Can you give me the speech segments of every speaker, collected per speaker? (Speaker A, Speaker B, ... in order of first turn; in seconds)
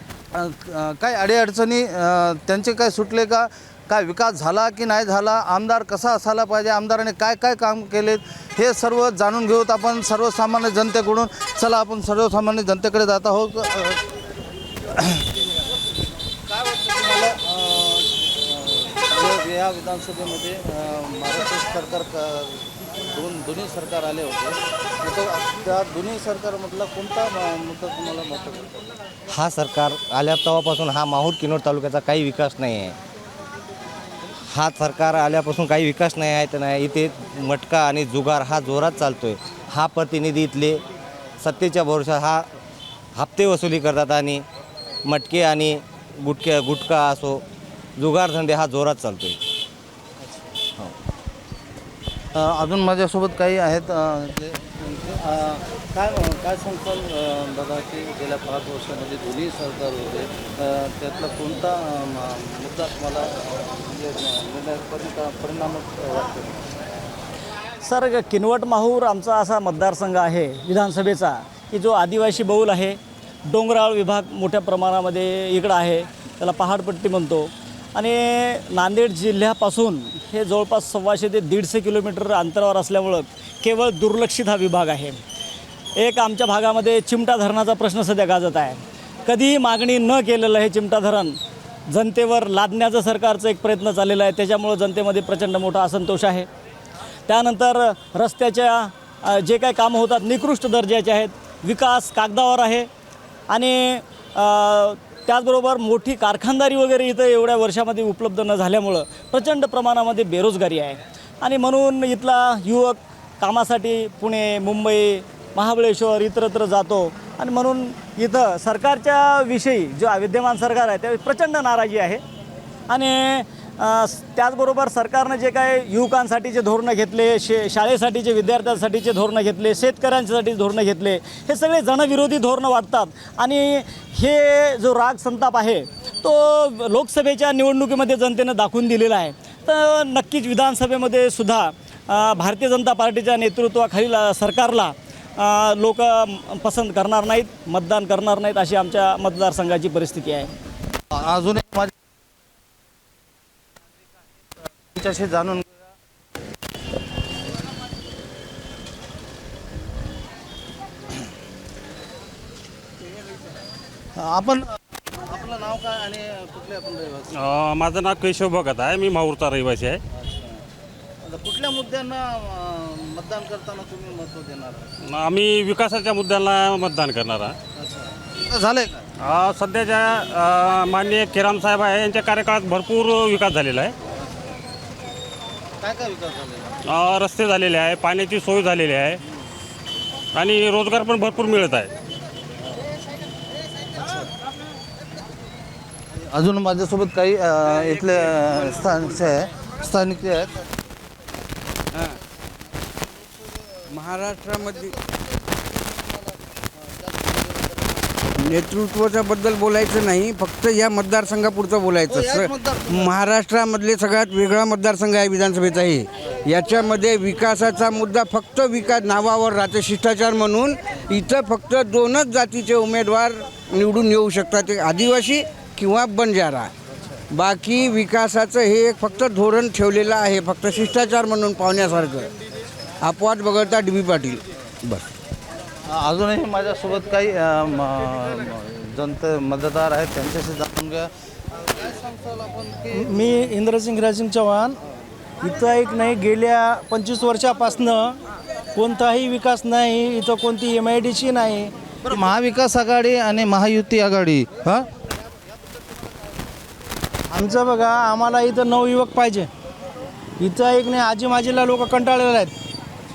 Speaker A: 0.3-14.0, 15.0-15.2, 16.5-28.9, 52.4-66.7, 151.1-151.9, 154.9-155.9, 164.2-167.3, 170.1-170.6, 171.2-174.9, 177.8-179.1, 185.8-186.8, 194.0-194.3, 196.1-200.7, 203.0-208.3, 212.1-213.2, 226.9-227.2, 235.8-243.4, 252.1-254.9
Speaker B: 29.3-33.0, 34.5-40.8, 41.4-42.5, 43.1-44.5, 45.0-47.4, 48.0-49.4
Speaker C: 67.8-85.2, 86.0-96.5, 97.3-102.9, 103.5-122.2, 122.9-150.5
Speaker D: 167.4-170.0, 175.1-177.6, 179.2-183.9, 186.9-189.2, 190.3-191.9
Speaker E: 203.9-204.9, 208.4-226.7, 227.3-232.3, 233.0-235.0
Speaker F: 242.9-244.8, 245.4-248.2, 248.8-251.7, 257.3-259.5, 260.4-262.5